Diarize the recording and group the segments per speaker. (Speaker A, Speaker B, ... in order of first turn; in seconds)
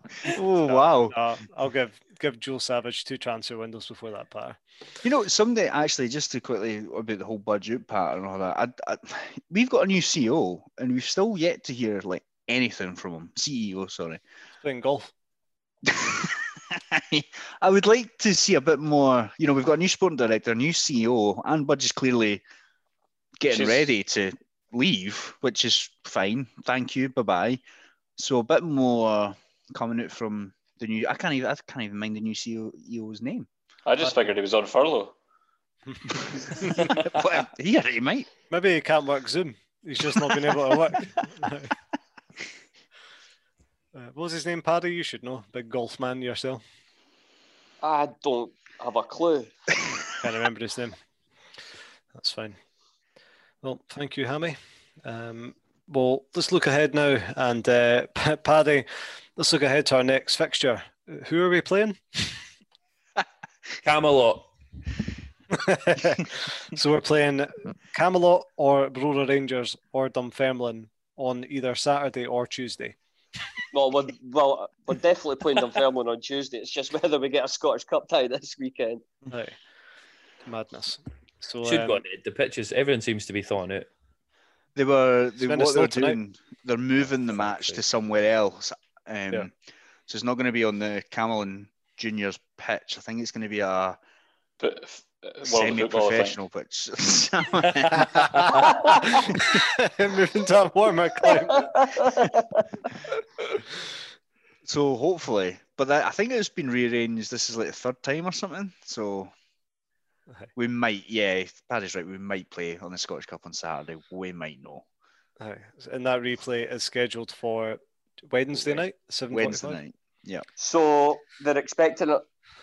Speaker A: 0.3-1.2, 5.0-14.2, 15.9-22.4, 23.4-27.6, 28.2-33.5, 36.3-38.3, 84.8-89.5, 90.1-94.0, 95.4-98.5, 104.7-109.3, 110.6-114.8, 118.7-120.5
Speaker B: 0.6-4.6, 14.6-15.1, 38.5-41.7, 43.9-46.6, 50.1-51.0, 52.1-52.6, 53.6-62.4, 65.5-73.0, 79.3-79.6, 80.4-82.0, 85.4-86.2, 99.3-101.8, 115.4-119.8
Speaker C: 23.5-23.9, 33.9-35.1, 94.6-96.4
Speaker D: 47.8-49.5, 73.7-79.0, 101.5-102.7, 120.6-122.2
Speaker E: 63.8-64.5, 81.6-83.9, 87.4-87.8